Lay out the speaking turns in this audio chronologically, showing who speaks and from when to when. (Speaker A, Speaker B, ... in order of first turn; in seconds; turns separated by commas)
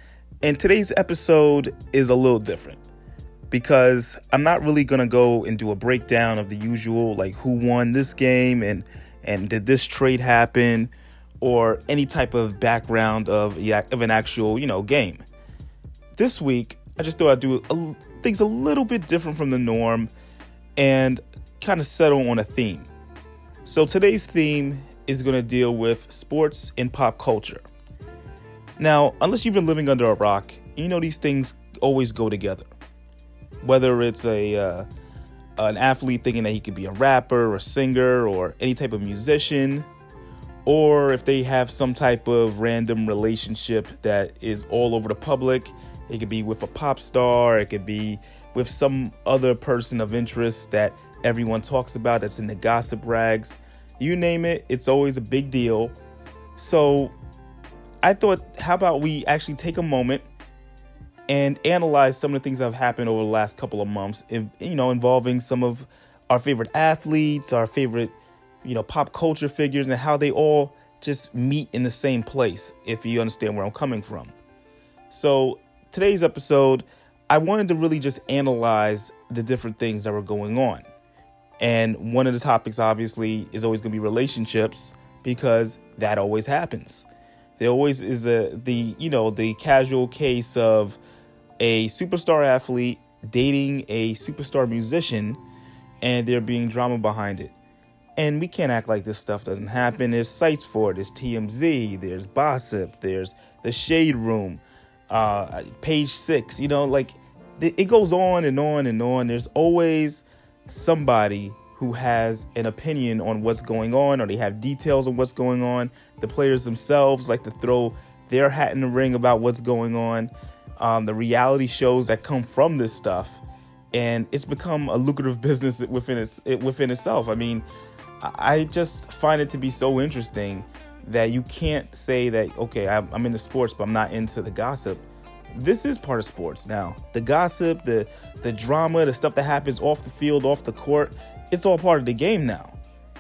Speaker A: 0.4-2.8, Speaker A: 3.5-15.2, Speaker A: 16.1-20.1, Speaker A: 20.8-22.9, Speaker A: 23.6-27.6, Speaker A: 28.8-32.7, Speaker A: 33.6-34.9, Speaker A: 35.6-39.9, Speaker A: 40.6-56.0, Speaker A: 56.6-57.1, Speaker A: 58.0-60.3, Speaker A: 61.3-74.3, Speaker A: 75.1-80.9, Speaker A: 81.6-87.1, Speaker A: 87.6-91.0, Speaker A: 91.6-95.4, Speaker A: 96.0-97.5, Speaker A: 98.2-123.4, Speaker A: 123.9-127.7, Speaker A: 128.2-142.8